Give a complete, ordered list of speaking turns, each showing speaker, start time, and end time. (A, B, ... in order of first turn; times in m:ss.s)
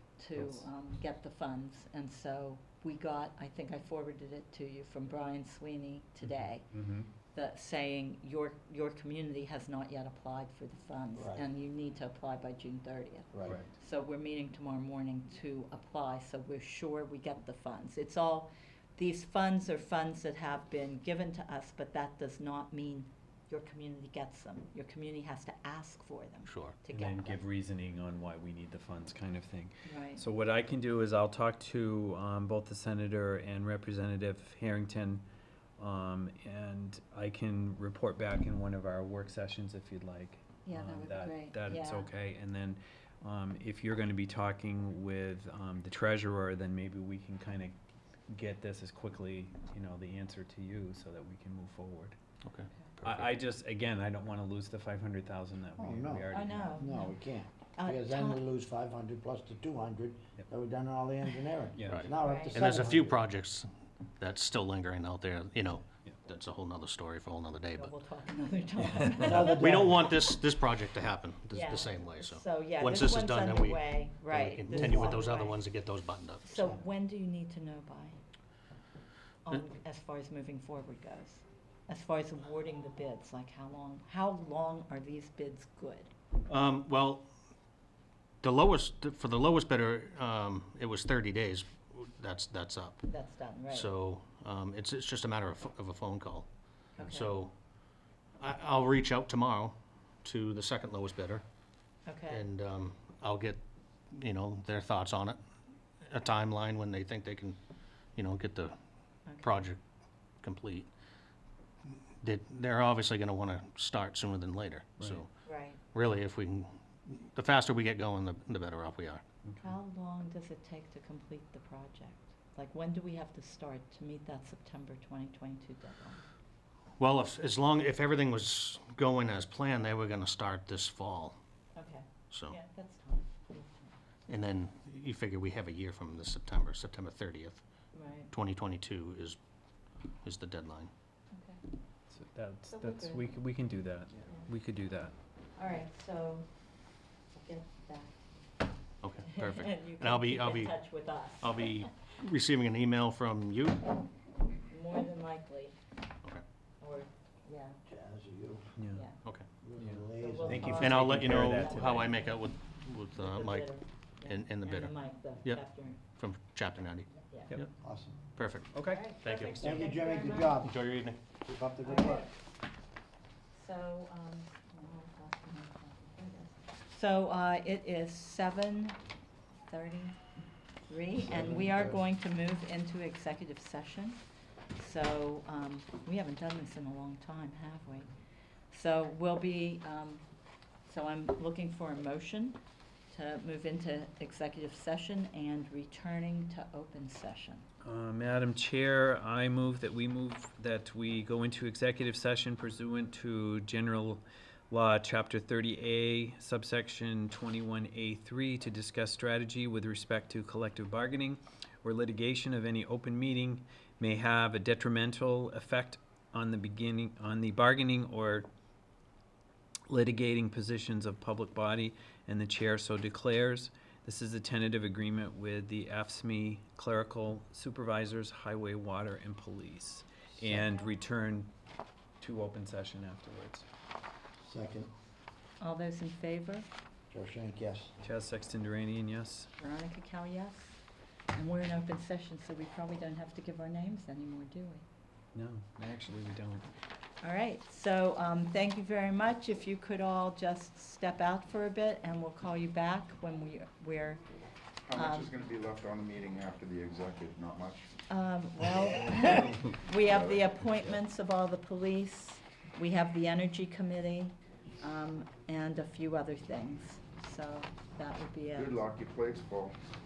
0:00.2-0:06.7 A
0:06.7-0:07.1 B
0:07.3-0:27.4 A
0:11.2-0:11.4 C
0:13.3-0:13.6 C
0:26.5-0:26.8 D
0:26.9-0:35.2 B
0:29.8-0:30.2 A
0:35.8-0:47.8 B
0:40.7-0:42.1 A
0:48.3-0:52.2 B
0:52.4-0:53.4 D
0:53.0-0:56.7 B
0:55.8-1:03.2 C
0:56.3-0:57.2 A
0:57.8-0:58.4 A
1:01.8-1:07.9 D
1:02.2-1:02.6 A
1:07.8-1:10.0 A
1:09.2-1:10.0 C
1:09.5-1:16.4 D
1:11.5-1:15.6 A
1:16.4-1:18.2 A
1:19.4-1:26.1 A
1:26.5-1:27.3 D
1:28.4-1:33.1 D
1:33.0-1:33.9 A
1:33.7-1:37.5 D
1:37.0-1:37.4 A
1:38.4-1:41.4 D
1:42.0-1:42.4 A
1:42.3-1:43.6 D
1:44.1-1:45.4 D
1:46.0-1:47.6 D
1:48.1-1:48.7 D
1:49.2-1:49.7 A
1:49.4-1:49.8 D
1:50.4-1:50.9 D
1:51.8-1:55.3 D
1:55.4-1:55.8 A
1:55.8-1:59.2 D
1:59.6-2:06.2 A
2:07.0-2:11.4 D
2:11.8-2:13.9 A
2:12.3-2:12.6 D
2:14.3-2:17.6 D
2:17.9-2:18.3 A
2:18.3-2:19.4 D
2:20.2-2:20.9 D
2:21.3-2:21.6 A
2:22.1-2:25.1 B
2:22.7-2:23.3 A
2:25.6-2:26.5 A
2:27.3-2:28.3 A
2:29.0-2:30.8 D
2:29.2-2:31.9 A
2:31.4-2:33.9 D
2:34.7-2:35.8 A
2:36.8-2:37.8 A
2:37.9-2:38.7 C
2:38.9-2:39.2 A
2:39.2-2:39.5 D
2:39.6-2:41.1 C
2:39.8-2:42.1 B
2:40.2-2:42.4 A
2:40.8-2:43.7 D
2:43.2-2:46.0 A
2:44.2-2:47.7 D
2:47.3-2:47.6 A
2:47.7-2:48.2 C
2:48.4-2:49.9 D
2:48.8-2:49.1 B
2:48.8-2:50.6 A
2:49.6-2:50.7 C
2:50.5-2:51.2 D
2:51.4-2:52.2 C
2:51.8-2:52.5 A
2:53.5-2:59.0 A
2:59.7-3:00.2 A
3:00.9-3:04.2 A
3:01.2-3:02.0 C
3:04.7-3:08.1 A
3:08.7-3:10.2 A
3:10.8-3:12.6 A
3:13.1-3:17.7 A
3:17.8-3:38.5 B
3:39.9-3:51.5 B
3:50.4-3:50.7 C
3:52.2-3:53.7 B
3:54.4-3:54.9 C
3:55.6-3:56.7 A
3:57.1-3:57.9 C
3:58.0-3:59.5 B
3:59.6-4:00.8 A
4:01.3-4:04.8 A
4:05.3-4:06.7 B
4:07.2-4:14.2 A
4:14.8-4:17.9 E
4:14.9-4:15.3 A
4:18.1-4:28.8 A
4:20.0-4:20.5 E
4:28.5-4:29.8 E